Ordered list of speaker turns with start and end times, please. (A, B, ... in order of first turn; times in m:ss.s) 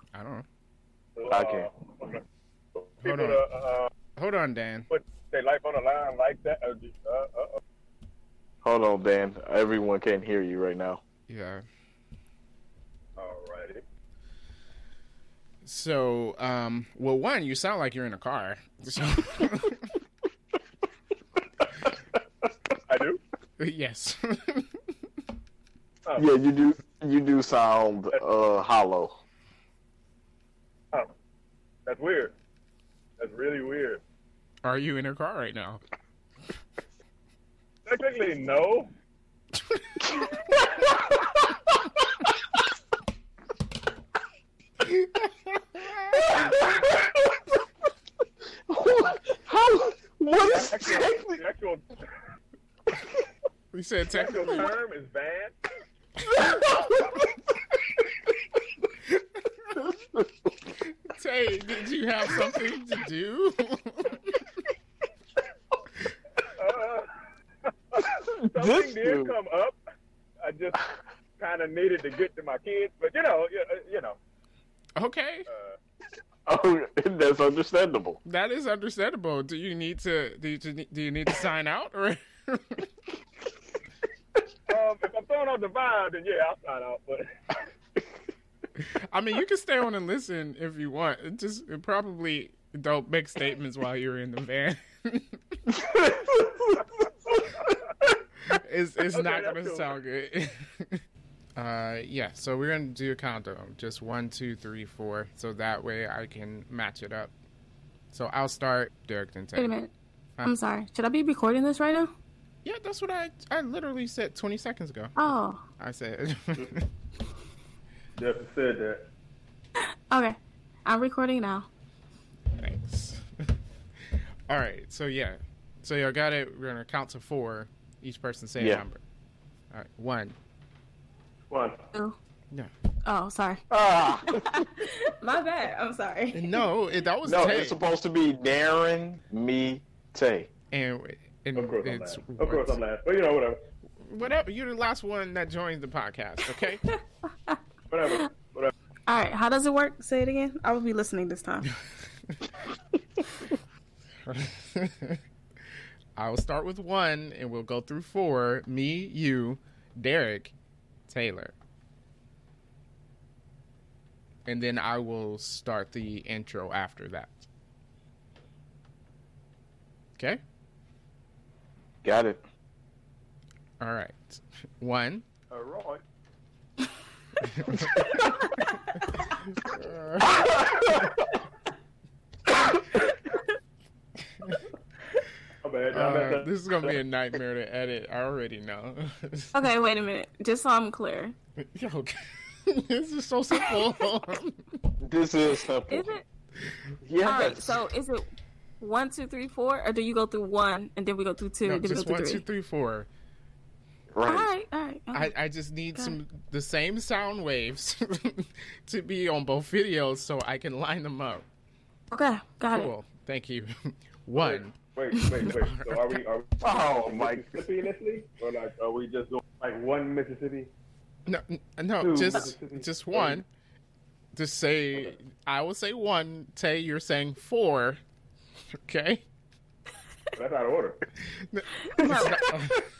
0:00.1-0:00.5 A
0:01.2-0:02.2 B
0:01.3-0:01.7 C
0:02.8-0:03.9 B
0:03.0-0:03.4 A
0:04.2-0:04.9 A
0:04.9-0:07.6 B
0:08.6-0:11.0 C
0:11.3-0:11.6 A
0:13.2-0:13.8 B
0:15.6-0:19.9 A
0:22.9-0:23.2 B
0:23.6-0:24.7 A
0:26.2-0:29.2 C
0:31.9-0:32.3 B
0:33.2-0:34.0 B
0:34.6-0:35.8 A
0:37.9-0:38.9 B
0:44.8-0:46.2 A
0:46.2-0:47.1 C
0:48.7-0:51.4 C
0:50.4-0:52.1 B
0:53.7-0:54.7 A
0:54.1-0:55.6 B
0:59.8-1:00.3 C
1:01.1-1:04.4 A
1:06.4-1:07.1 B
1:07.9-1:09.8 B
1:08.4-1:09.4 C
1:10.4-1:10.8 B
1:11.4-1:14.2 B
1:15.0-1:15.5 A
1:15.5-1:15.8 B
1:16.5-1:18.2 C
1:18.2-1:22.9 A
1:24.7-1:27.3 B
1:28.8-1:35.4 A
1:38.5-1:41.0 A
1:39.1-1:40.0 B
1:41.6-1:47.3 A
1:48.1-1:49.8 A
1:49.6-1:49.9 D
1:50.4-1:52.1 D
1:52.6-1:55.1 A
1:55.2-1:55.6 D
1:55.8-1:56.9 A
1:58.2-1:59.1 B
2:00.1-2:01.7 D
2:02.6-2:03.2 A
2:04.5-2:09.0 A
2:08.6-2:08.8 C
2:09.7-2:10.4 A
2:11.5-2:11.8 B
2:13.0-2:13.6 D
2:13.7-2:14.7 C
2:14.3-2:16.7 D
2:16.3-2:17.8 A
2:17.2-2:20.5 C
2:20.7-2:22.8 A
2:21.6-2:23.6 B
2:24.0-2:26.9 A
2:27.9-2:28.7 B
2:29.1-2:31.7 D
2:32.3-2:32.6 A
2:34.3-2:35.2 A
2:36.2-2:40.6 A
2:41.1-2:41.6 A
2:44.5-2:47.5 A
2:52.0-2:52.4 C
2:53.8-2:55.2 A
2:55.5-2:56.0 B
2:57.4-2:58.0 A
2:59.1-3:00.5 A
3:00.2-3:01.2 C
3:05.6-3:06.9 B
3:05.9-3:09.5 A
3:09.5-3:11.4 D
3:11.7-3:14.6 A
3:15.0-3:16.1 C
3:15.9-3:16.2 D
3:17.0-3:17.8 C
3:17.2-3:18.3 D
3:18.8-3:22.4 D
3:21.6-3:23.1 A
3:24.1-3:24.5 C
3:24.2-3:25.4 D
3:25.1-3:31.5 A
3:32.1-3:32.9 D
3:32.7-3:34.8 A
3:34.4-3:40.7 B
3:35.4-3:36.2 A
3:36.6-3:37.7 C
3:41.3-3:43.5 A
3:42.0-3:43.4 B
3:44.4-3:48.0 A
3:48.8-3:49.2 A
3:50.4-3:51.0 B
3:51.3-3:52.9 A
3:51.9-3:52.5 D